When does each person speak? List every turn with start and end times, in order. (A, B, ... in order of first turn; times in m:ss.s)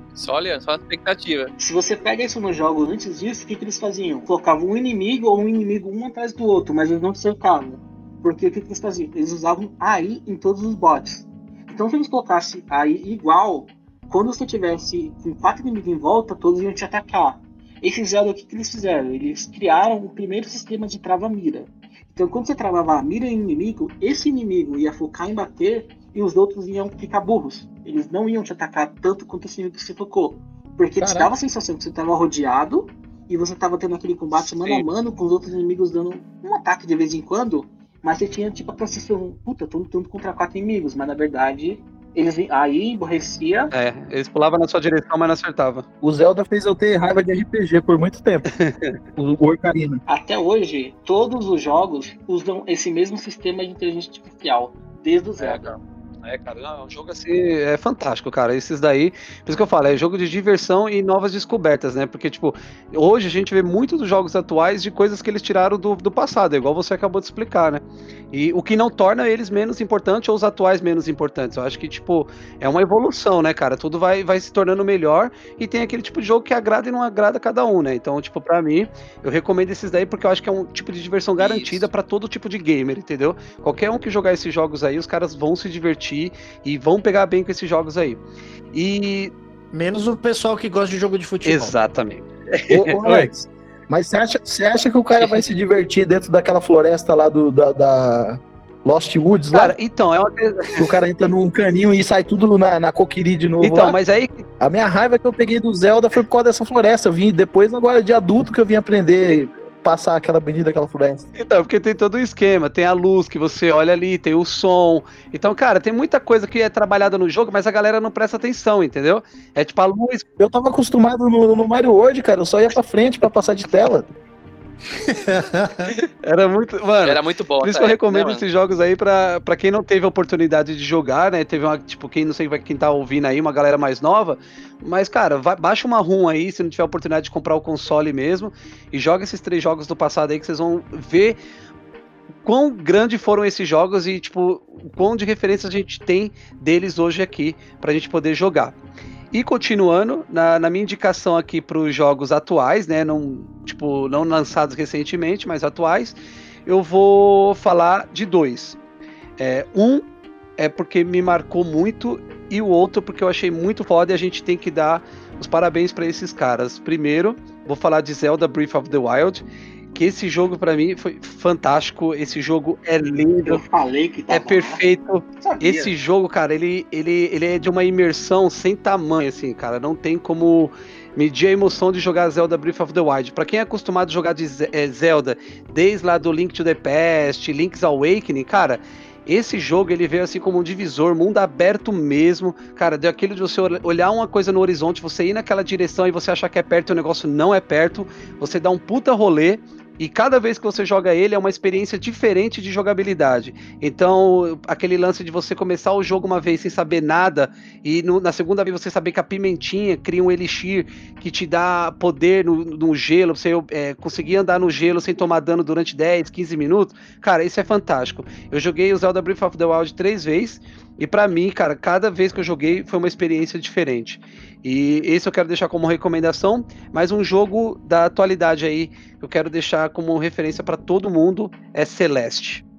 0:00.2-0:01.5 A
0:01.6-0:43.7 B
0:31.0-0:31.3 C
0:34.6-0:34.9 D
0:43.7-0:45.9 D
0:46.0-0:48.5 C
0:48.5-0:48.9 D
0:49.2-0:50.0 C
0:50.1-0:55.6 B
0:55.4-0:55.8 D
0:56.3-1:29.3 D
1:21.4-1:21.9 A
1:29.7-1:31.8 E
1:31.4-1:33.3 D
1:32.7-1:39.8 C
1:39.5-1:40.9 D
1:40.8-1:44.0 C
1:43.6-1:44.4 D
1:44.6-1:51.3 C
1:51.4-2:00.2 D
2:00.4-2:04.1 C
2:04.9-2:06.0 E
2:06.2-2:21.4 D
2:07.0-2:08.4 A
2:22.4-2:28.8 D
2:29.3-2:38.8 D
2:39.4-2:40.0 D
2:40.6-2:53.6 D
2:53.4-2:54.8 B
2:54.3-3:52.6 D
2:55.4-2:55.9 B